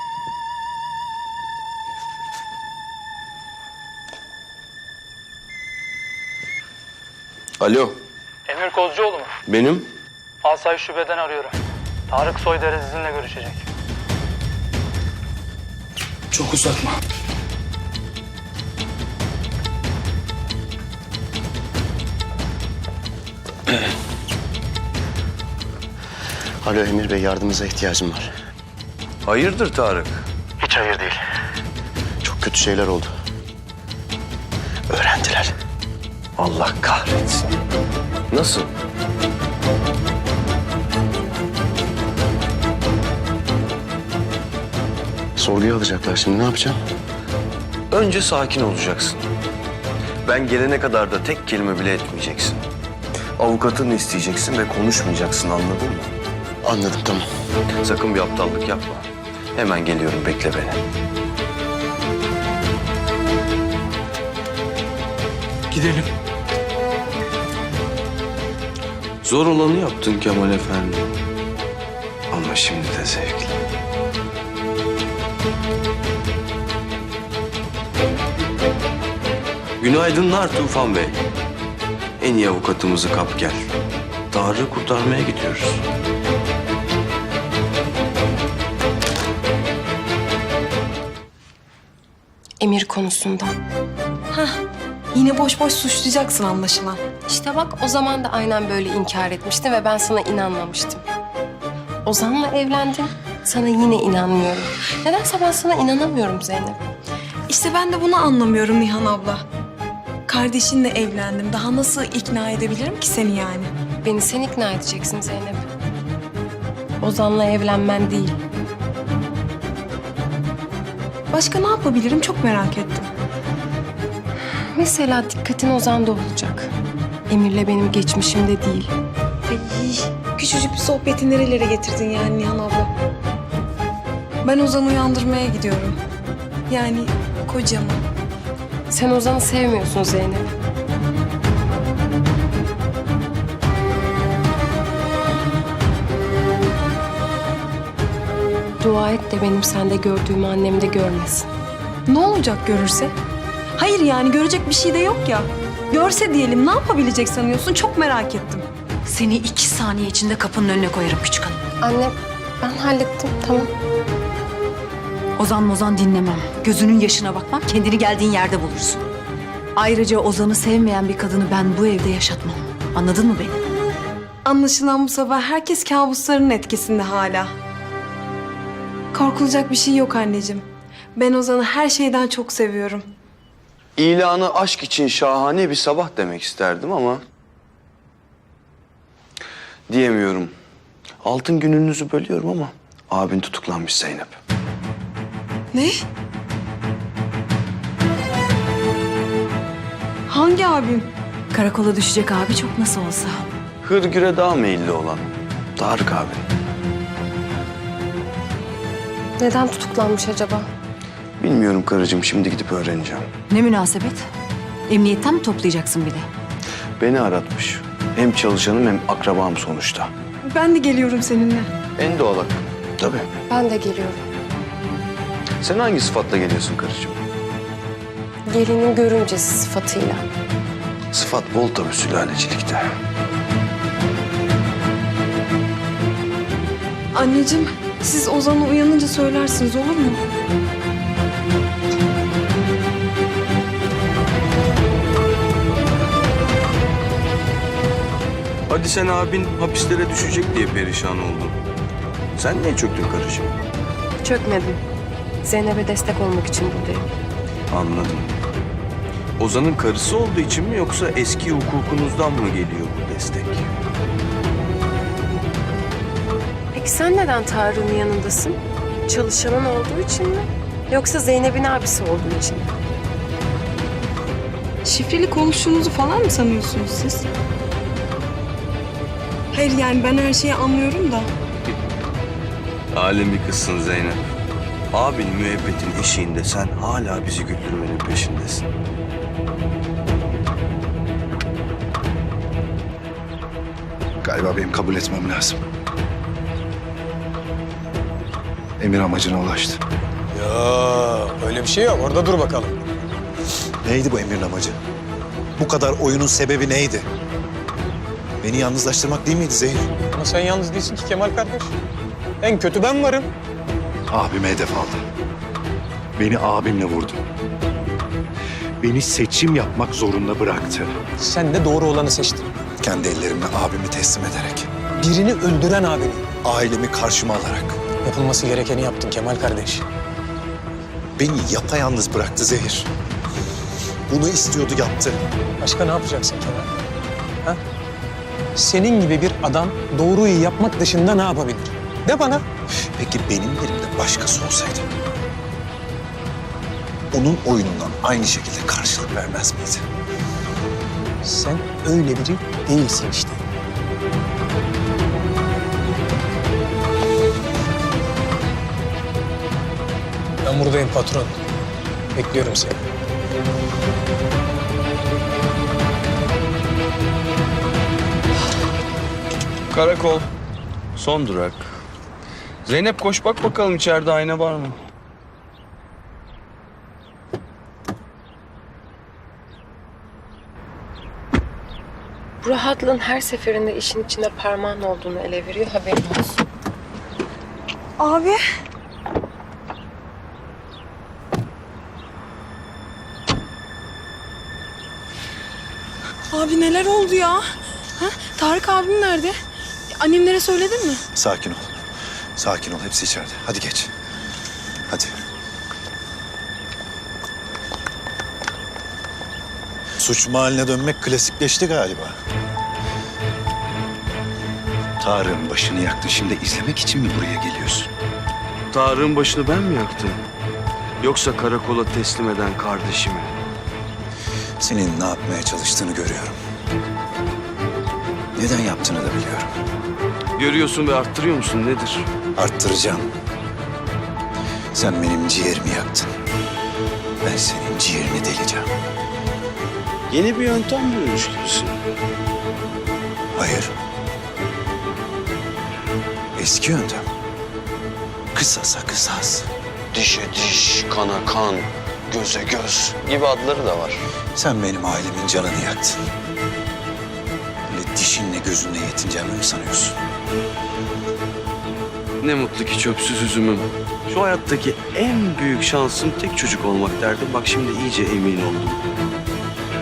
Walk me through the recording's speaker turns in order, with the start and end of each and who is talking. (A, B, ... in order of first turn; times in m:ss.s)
0:07.6-0:08.0 A
0:08.5-0:09.3 B
0:09.4-0:09.9 A
0:10.4-0:11.5 B
0:12.1-0:13.6 B
0:16.3-0:16.9 A
0:26.6-0:28.3 C
0:29.2-0:30.2 A
0:30.6-0:31.2 C
0:32.2-0:33.1 C
0:34.9-0:35.6 C
0:36.4-0:37.5 A
0:38.3-0:38.7 A
0:45.4-0:46.8 C
0:47.9-0:49.3 A
0:50.2-0:52.6 A
0:53.4-0:56.1 A
0:56.6-0:57.2 C
0:57.8-1:00.8 A
1:05.7-1:06.0 A
1:09.2-1:11.1 A
1:12.3-1:13.6 A
1:19.8-1:21.2 A
1:22.2-1:23.7 A
1:24.3-1:25.8 A
1:32.6-1:33.6 D
1:34.3-1:34.6 E
1:35.1-1:37.0 E
1:37.3-1:41.0 D
1:42.0-1:46.8 D
1:47.5-1:49.4 E
1:50.3-1:53.7 E
1:54.0-1:55.6 D
1:57.0-1:58.4 D
2:01.3-2:03.1 E
2:04.8-2:06.7 D
2:07.3-2:08.9 D
2:09.5-2:12.9 E
2:14.4-2:16.0 E
2:16.7-2:18.0 E
2:18.9-2:20.5 D
2:28.8-2:31.5 D
2:32.1-2:33.1 E
2:33.8-2:38.6 E
2:39.0-2:41.6 F
2:41.8-2:43.7 D
2:45.4-2:49.0 F
2:49.8-2:53.6 F
2:54.4-2:57.5 E
2:59.1-3:03.1 E
3:04.0-3:07.2 A
3:09.9-3:10.5 A
3:11.2-3:14.4 A
3:20.3-3:21.1 E
3:21.5-3:23.4 F
3:23.8-3:26.4 A
3:29.4-3:30.7 D
3:31.4-3:33.3 A
3:33.5-3:34.2 F
3:34.9-3:36.3 F
3:37.0-3:40.1 A
3:40.4-3:41.7 E
3:42.0-3:43.3 A
3:43.5-3:44.2 D
3:45.6-3:47.2 A
3:48.5-3:50.2 D
3:51.1-3:52.9 A
3:57.1-4:00.2 E
4:08.7-4:11.6 A
4:12.4-4:13.6 A
4:14.2-4:14.8 D
4:15.4-4:17.1 D
4:17.7-4:18.3 A
4:19.4-4:23.7 A
4:26.7-4:32.7 D
4:34.8-4:37.3 E
4:39.5-4:41.3 E
4:42.9-4:44.2 A
4:44.9-4:48.7 A
4:54.2-4:55.6 G
4:58.8-4:59.8 G
5:00.3-5:02.8 H
5:03.8-5:04.8 G
5:05.6-5:07.1 G
5:08.4-5:09.9 G
5:10.1-5:11.7 H
5:12.4-5:13.3 H
5:14.1-5:15.0 G
5:16.2-5:17.2 G
5:18.8-5:20.9 G
5:21.2-5:22.5 H
5:22.8-5:24.7 G
5:25.0-5:26.3 H
5:26.4-5:27.8 G
5:28.0-5:29.8 H
5:31.2-5:32.9 G
5:34.1-5:35.2 G
5:35.6-5:36.7 H
5:38.6-5:42.4 H
5:42.9-5:44.9 G
5:47.1-5:49.8 G
5:51.2-5:53.4 H
6:00.4-6:01.4 H
6:02.2-6:02.8 H
6:09.7-6:10.3 A
6:10.9-6:11.8 A
6:12.7-6:14.8 A
6:22.4-6:26.4 D
6:28.0-6:28.4 E
6:36.3-6:37.4 E
6:38.0-6:39.3 E
6:39.9-6:41.0 E
6:41.1-6:41.6 G
6:42.4-6:43.9 G
6:44.9-6:45.2 G
6:50.0-6:52.2 G
6:55.0-6:57.9 G
6:58.7-7:00.2 A
7:01.0-7:03.4 A
7:04.6-7:06.4 G
7:08.3-7:09.5 G
7:10.4-7:12.1 A
7:12.4-7:13.1 G
7:14.7-7:16.1 G
7:17.2-7:18.7 G
7:20.1-7:21.8 A
7:23.3-7:23.7 G
7:26.3-7:27.1 G
7:28.3-7:29.5 G
7:29.9-7:34.1 A
7:34.3-7:36.0 G
7:37.7-7:40.0 G
7:42.2-7:48.8 A